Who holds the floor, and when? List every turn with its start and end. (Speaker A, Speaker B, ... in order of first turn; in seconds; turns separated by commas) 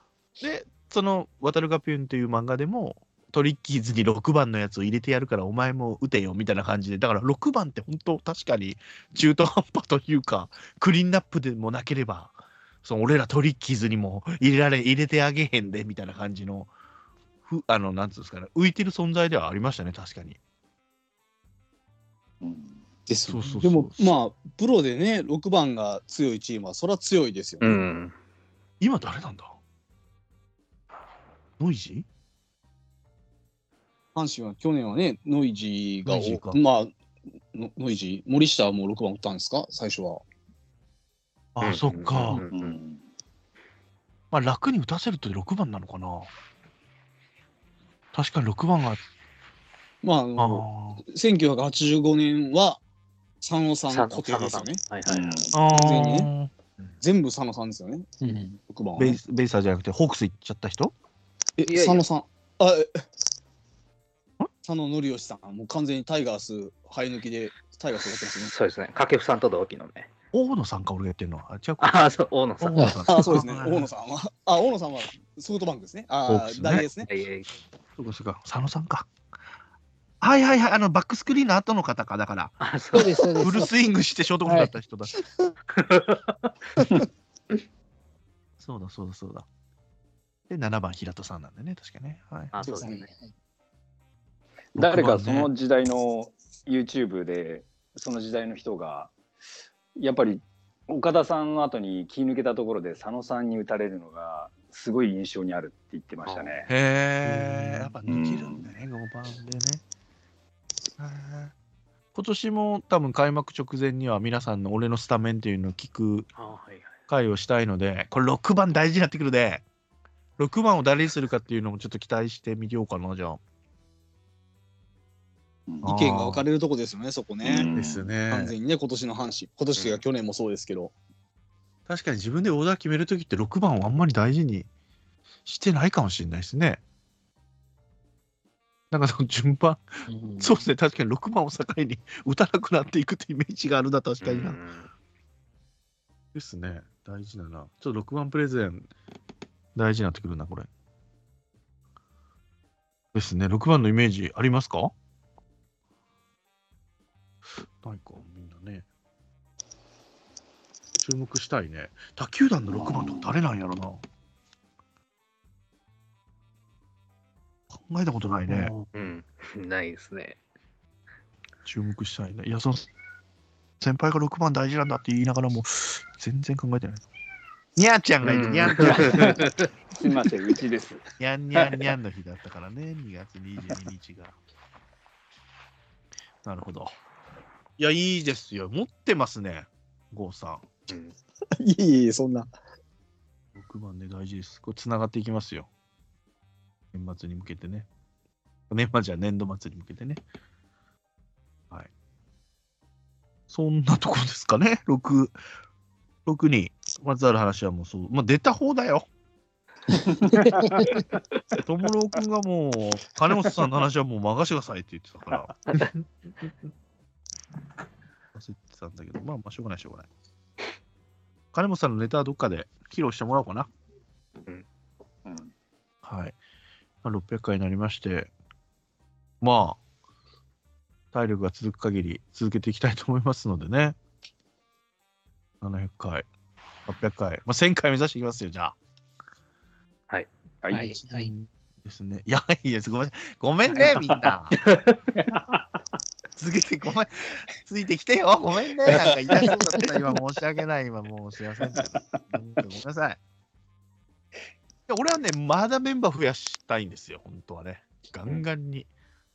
Speaker A: 0.4-16.7, Speaker A: 17.4-20.4, Speaker B: 22.4-22.8, Speaker C: 23.1-27.8, Speaker A: 23.3-24.1, Speaker D: 27.6-28.1, Speaker A: 28.8-29.6, Speaker A: 31.6-32.0, Speaker C: 34.1-36.9, Speaker A: 36.0-36.6, Speaker C: 37.5-40.2, Speaker A: 41.5-42.4, Speaker D: 41.6-42.6, Speaker B: 42.3-43.0, Speaker A: 44.3-46.3, Speaker A: 48.1-49.0, Speaker C: 50.0-52.8, Speaker A: 50.4-51.0, Speaker C: 53.4-54.8, Speaker D: 53.9-55.5, Speaker B: 55.0-55.5, Speaker C: 55.5-56.3, Speaker A: 55.5-56.5, Speaker C: 57.0-58.1, Speaker E: 58.2-58.6, Speaker C: 58.7-59.2, Speaker A: 59.0-60.9, Speaker C: 61.6-63.0, Speaker D: 61.6-62.0, Speaker C: 64.6-68.5, Speaker D: 68.1-70.1, Speaker A: 70.3-72.0, Speaker D: 71.8-73.2, Speaker A: 72.6-73.9, Speaker C: 73.1-77.1, Speaker A: 76.3-76.8, Speaker D: 76.7-77.5, Speaker A: 78.0-79.1, Speaker A: 80.2-82.6, Speaker D: 82.6-83.5, Speaker E: 82.9-83.7, Speaker A: 83.4-85.2, Speaker E: 84.5-84.7, Speaker D: 85.7-86.7, Speaker A: 88.6-89.5, Speaker A: 90.5-92.5, Speaker D: 92.5-93.1, Speaker E: 92.6-93.2, Speaker B: 94.7-99.1, Speaker A: 94.8-95.5, Speaker B: 100.0-106.7, Speaker D: 106.2-106.6, Speaker A: 106.7-109.8, Speaker B: 108.0-108.7, Speaker A: 111.0-111.5, Speaker A: 112.1-116.3, Speaker D: 116.3-117.0, Speaker A: 117.1-119.6, Speaker A: 120.4-123.4, Speaker B: 125.7-125.9, Speaker A: 125.8-126.5, Speaker C: 125.8-127.7, Speaker B: 127.4-128.2, Speaker A: 127.7-128.5, Speaker C: 128.3-130.9, Speaker D: 129.8-130.0, Speaker A: 131.9-134.7, Speaker A: 135.4-136.8, Speaker A: 138.9-144.6, Speaker E: 140.1-140.6, Speaker D: 144.2-144.9, Speaker A: 146.3-148.9, Speaker A: 149.7-150.7, Speaker A: 153.1-154.9, Speaker A: 157.8-158.8, Speaker A: 161.0-164.0, Speaker B: 162.7-163.3, Speaker A: 167.7-168.7, Speaker E: 168.5-168.9, Speaker D: 168.9-170.4, Speaker A: 171.6-172.8, Speaker A: 173.8-177.0, Speaker A: 177.8-179.5, Speaker D: 178.2-179.5, Speaker B: 179.9-181.0, Speaker A: 181.2-184.3, Speaker A: 186.4-186.9, Speaker A: 187.8-190.7, Speaker D: 190.9-191.2, Speaker C: 191.6-192.5, Speaker A: 193.5-195.7, Speaker A: 196.9-197.9, Speaker A: 198.7-200.2, Speaker A: 203.5-205.4, Speaker A: 206.2-209.1, Speaker E: 209.9-211.0, Speaker B: 210.2-211.0, Speaker A: 211.5-215.6, Speaker A: 218.3-220.1, Speaker A: 221.5-223.7, Speaker A: 226.0-226.3, Speaker A: 227.0-228.3, Speaker A: 229.4-229.8, Speaker A: 231.1-234.0, Speaker A: 235.6-236.2, Speaker A: 236.8-238.8, Speaker B: 240.6-240.9, Speaker E: 240.7-241.3, Speaker A: 241.1-244.6, Speaker D: 244.6-245.0, Speaker A: 246.4-253.2, Speaker A: 254.9-258.9